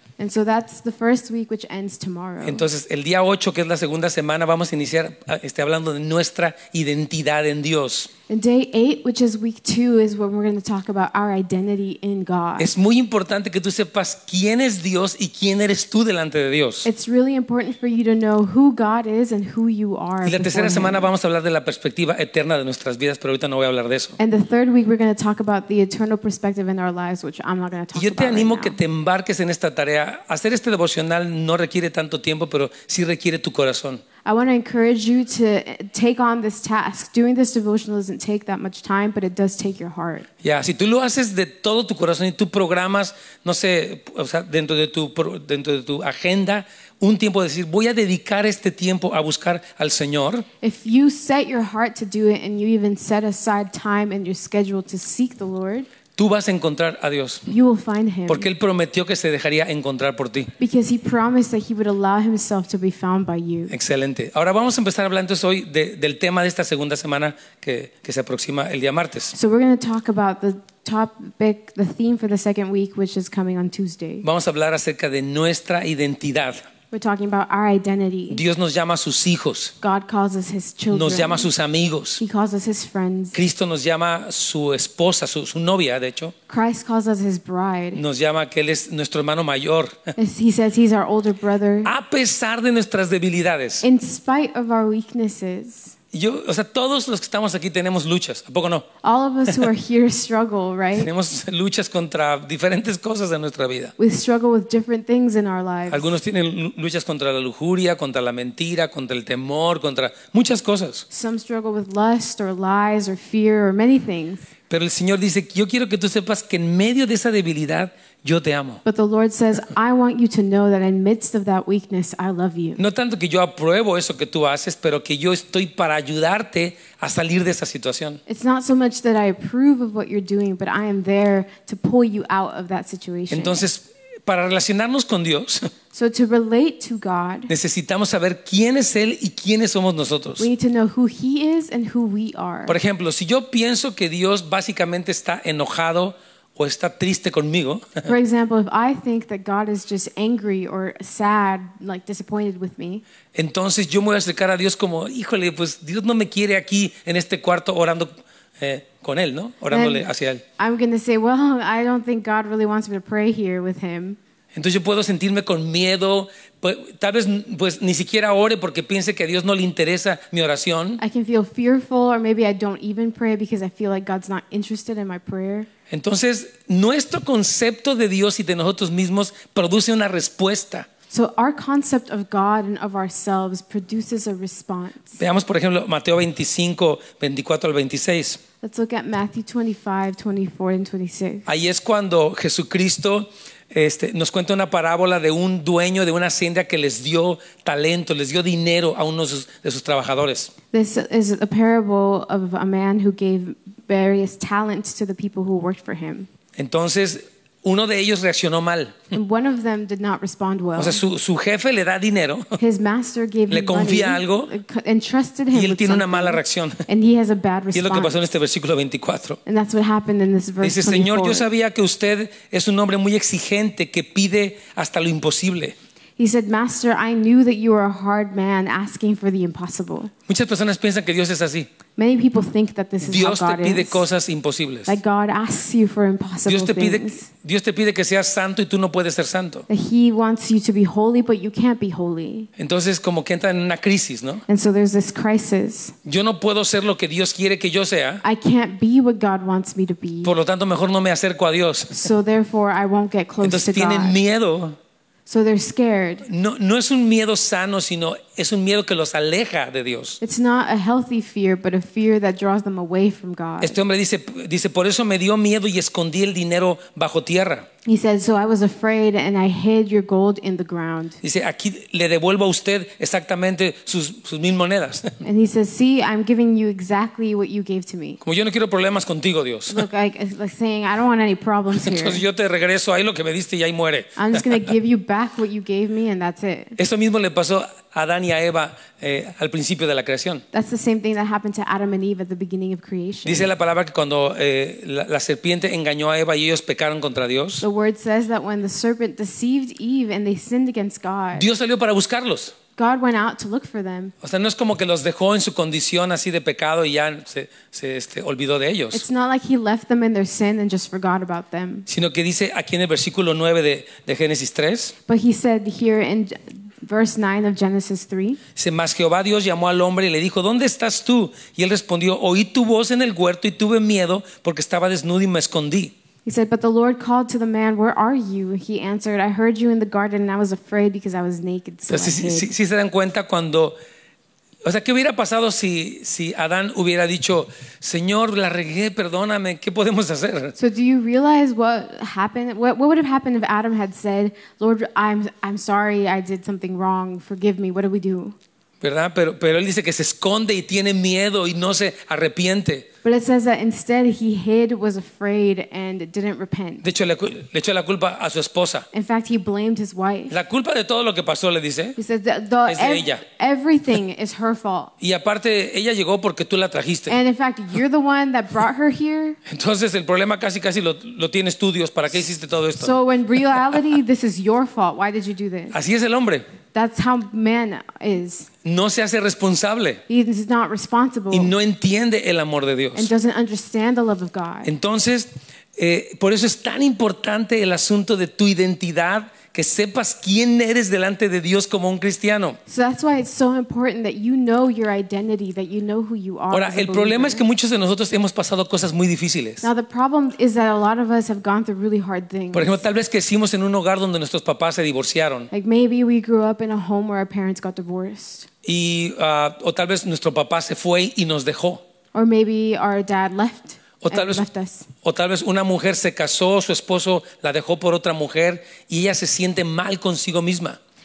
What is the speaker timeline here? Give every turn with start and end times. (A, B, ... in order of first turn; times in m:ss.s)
0:00.2-0:02.6 A
0:02.4-0:08.1 B
0:08.3-0:12.7 A
0:12.6-0:16.9 B
0:16.8-0:21.1 A
0:20.2-0:24.2 B
0:24.2-0:28.8 A
0:27.9-0:34.0 B
0:34.2-0:40.3 A
0:40.4-0:50.4 B
0:50.6-0:55.9 A
0:56.2-0:57.5 B
0:57.5-0:58.5 A
0:58.3-1:00.5 B
1:00.6-1:03.7 A
1:03.7-1:09.3 B
1:09.3-1:14.2 A
1:14.2-1:16.6 B
1:16.9-1:18.4 A
1:18.3-1:19.7 B
1:19.8-1:21.5 A
1:20.9-1:22.2 B
1:22.2-1:23.4 A
1:23.3-1:26.3 B
1:26.5-1:28.0 A
1:28.0-1:30.1 B
1:30.2-1:31.9 A
1:31.8-1:33.8 B
1:33.8-1:35.9 A
1:36.1-1:38.9 B
1:39.0-1:41.1 A
1:41.0-1:43.9 B
1:44.0-1:46.1 A
1:45.9-1:51.0 B
1:51.1-1:54.5 A
1:54.7-1:58.8 B
1:58.8-2:02.8 A
2:02.8-2:08.2 B
2:08.3-2:13.6 A
2:13.3-2:15.7 B
2:15.9-2:17.5 A
2:17.5-2:20.5 B
2:20.4-2:22.8 A
2:22.7-2:28.1 B
2:28.1-2:33.0 A
2:33.4-2:40.4 B
2:39.7-2:40.1 A
2:40.6-2:44.2 A
2:44.5-2:51.0 B
2:51.0-2:55.7 A
2:55.9-3:00.9 B
3:01.1-3:05.2 A
3:05.2-3:08.4 B
3:08.6-3:11.4 A
3:11.5-3:20.5 B
3:20.7-3:26.3 A
3:26.6-3:29.1 B
3:29.1-3:31.0 A
3:30.8-3:32.6 B
3:32.6-3:38.1 A
3:33.5-3:34.5 B
3:35.5-3:36.8 B
3:37.7-3:39.4 B
3:39.5-3:41.5 A
3:40.6-3:45.8 B
3:46.2-3:50.1 A
3:50.3-3:51.7 B
3:52.0-3:54.0 A
3:53.0-3:55.0 B
3:54.9-3:57.3 A
3:56.5-3:59.7 B
3:59.7-4:02.5 A
4:02.6-4:04.4 B
4:04.5-4:06.0 A
4:06.1-4:08.2 B
4:08.2-4:10.3 A
4:10.2-4:11.9 B
4:11.9-4:14.2 A
4:13.4-4:14.8 B
4:15.3-4:16.2 A
4:16.3-4:20.2 B
4:20.2-4:23.8 A
4:23.6-4:27.7 B
4:27.8-4:31.2 A
4:31.2-4:35.2 B
4:35.2-4:38.2 A
4:38.2-4:39.8 B
4:39.7-4:42.2 A
4:41.7-4:44.4 B
4:44.2-4:46.8 A
4:46.8-4:50.4 B
4:50.5-4:53.5 A
4:53.2-4:57.6 B
4:57.6-5:01.5 A
5:01.4-5:02.6 B
5:02.8-5:04.1 A
5:04.2-5:09.0 B
5:08.9-5:11.9 A
5:11.9-5:14.9 B
5:15.1-5:18.4 A
5:18.6-5:25.9 B
5:26.2-5:32.5 A
5:31.9-5:33.8 B
5:34.6-5:40.6 B
5:40.6-5:48.4 A
5:48.8-5:52.9 B
5:53.0-5:56.8 A
5:56.8-5:58.9 B
5:58.9-6:00.3 A
6:00.3-6:02.0 B
6:02.0-6:04.9 A
6:02.7-6:03.2 B
6:05.0-6:07.2 B
6:07.1-6:09.4 A
6:09.5-6:13.0 B
6:12.8-6:15.8 A
6:15.7-6:16.4 B
6:16.7-6:18.5 A
6:18.6-6:20.0 B
6:20.1-6:21.5 A
6:21.3-6:23.1 B
6:23.0-6:24.7 A
6:24.6-6:32.6 B
6:32.7-6:37.4 A
6:36.5-6:39.6 B
6:39.6-6:42.8 A
6:42.5-6:45.5 B
6:45.5-6:48.5 A
6:48.6-6:51.8 B
6:52.1-6:54.9 A
6:54.0-6:54.4 B
6:55.0-7:00.8 B